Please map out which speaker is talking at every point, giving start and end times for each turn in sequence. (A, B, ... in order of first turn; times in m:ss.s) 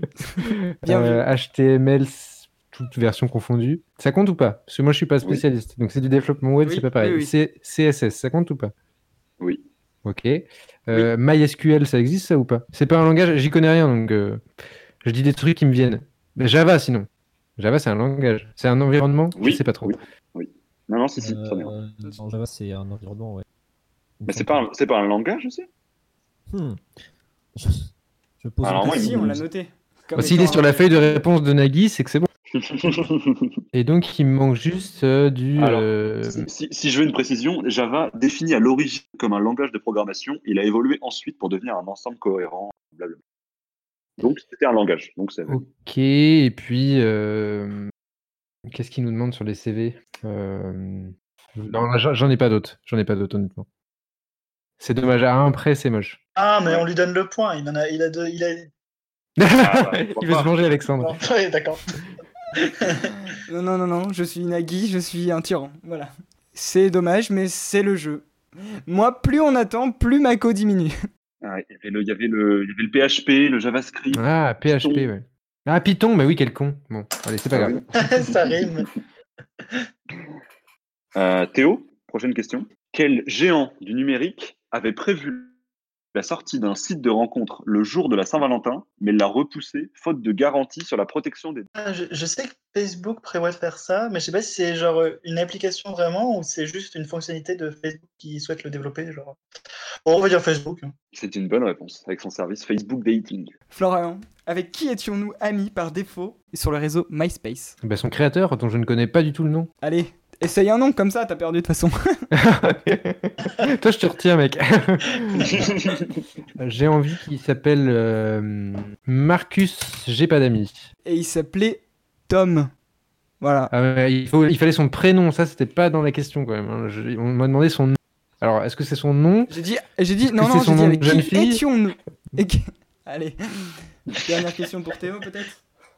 0:00.4-0:08.7 A
0:00.8-0:01.2 B
0:06.6-0:07.3 B
0:10.0-0:14.4 A
0:15.0-0:17.1 A
0:17.6-0:19.9 A
0:19.3-0:21.7 C
0:21.2-0:23.4 D
0:24.2-0:24.6 D
0:24.3-0:25.7 C
0:26.5-0:26.8 D
0:28.4-0:29.4 D
0:28.6-0:29.2 C
0:28.8-0:30.9 B
0:30.2-0:32.3 A
0:32.5-0:33.6 C
0:33.7-0:36.5 A
0:35.6-0:43.2 C
0:44.2-0:45.6 C
0:45.5-0:47.9 A
0:48.7-0:53.6 A
0:54.8-0:56.2 A
0:56.4-0:58.7 E
0:59.4-1:01.2 A
0:59.6-1:00.5 C
1:01.0-1:01.8 E
1:02.6-1:03.1 E
1:03.5-1:08.2 B
1:08.9-1:10.9 B
1:11.4-1:15.1 C
1:14.1-1:17.8 A
1:17.5-1:17.9 C
1:17.9-1:18.9 E
1:21.2-1:25.5 C
1:26.1-1:31.7 C
1:31.7-1:39.4 E
1:40.0-1:40.9 E
1:41.1-1:43.5 C
1:43.7-1:47.8 B
1:47.8-1:49.7 A
1:49.8-1:52.2 B
1:52.3-1:55.7 A
1:55.5-1:56.2 C
1:56.6-2:00.9 A
2:01.0-2:02.7 B
2:03.4-2:03.7 B
2:03.7-2:09.5 A
2:09.5-2:15.6 B
2:10.3-2:11.6 A